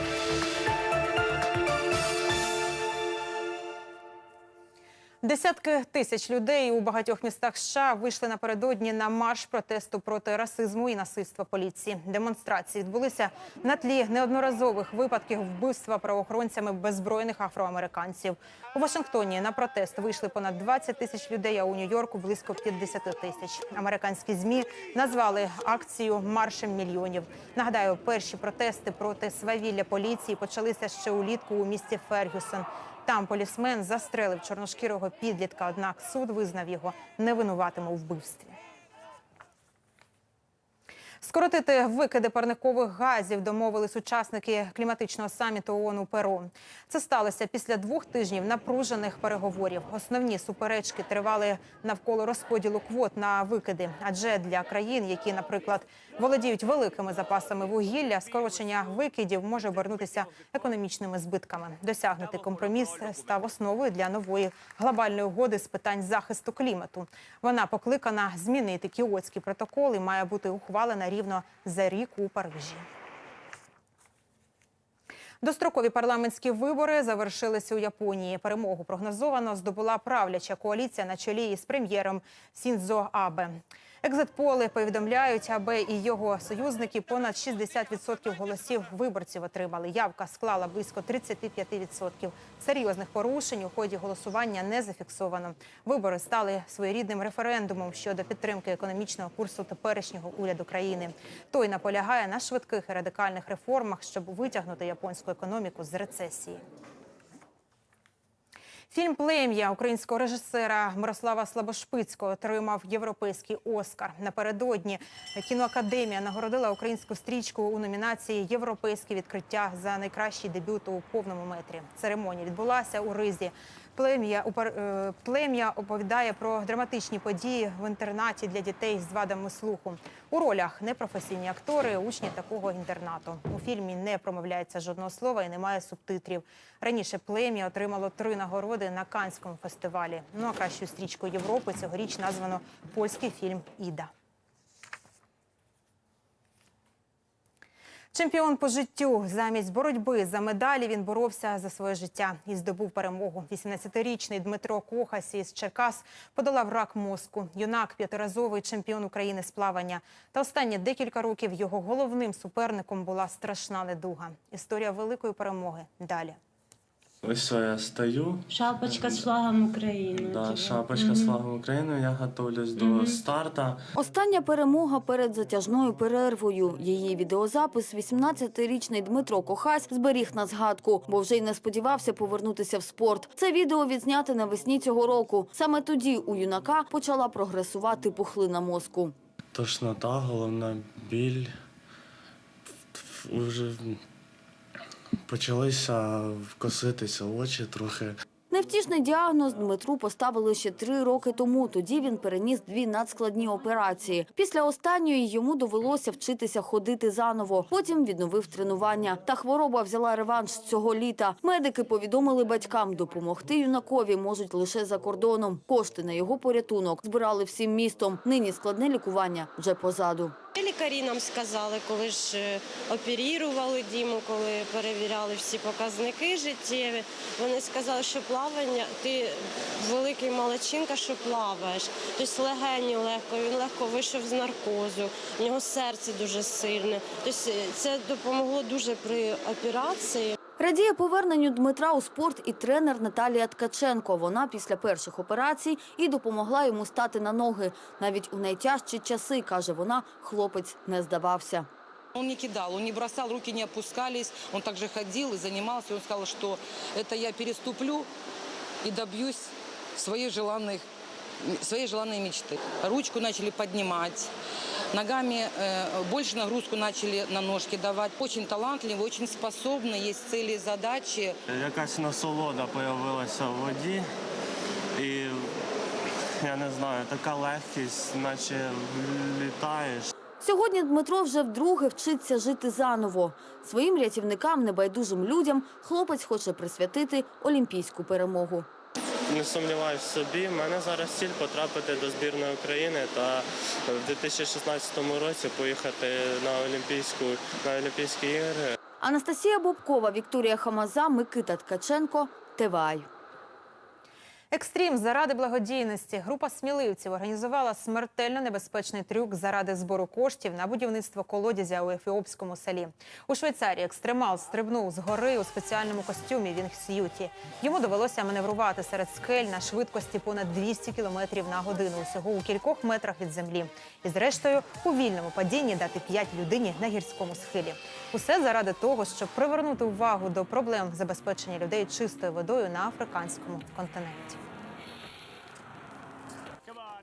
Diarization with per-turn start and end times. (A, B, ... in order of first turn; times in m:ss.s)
0:05.2-0:38.6 A
0:41.2-1:12.8 A
1:15.4-1:46.6 A
1:48.9-2:24.1 A
2:28.1-2:46.4 A
2:47.2-2:49.2 B
2:48.5-2:51.4 C
2:50.3-2:53.8 B
2:52.8-2:53.2 C
2:54.0-3:09.1 D
3:09.5-3:11.5 B
3:12.9-3:14.0 B
3:15.3-3:18.1 B
3:18.5-3:40.3 D
3:40.5-4:00.4 C
4:00.6-4:11.7 D
4:12.2-4:18.1 E
4:18.8-4:19.5 E
4:20.0-4:20.8 E
4:21.6-4:24.3 E
4:24.9-4:31.3 E
4:31.5-4:34.0 B
4:35.0-4:35.5 B
4:36.4-4:40.1 B
4:40.4-4:48.7 D
4:49.3-4:58.7 B
4:59.0-5:03.1 D
5:04.5-5:34.4 A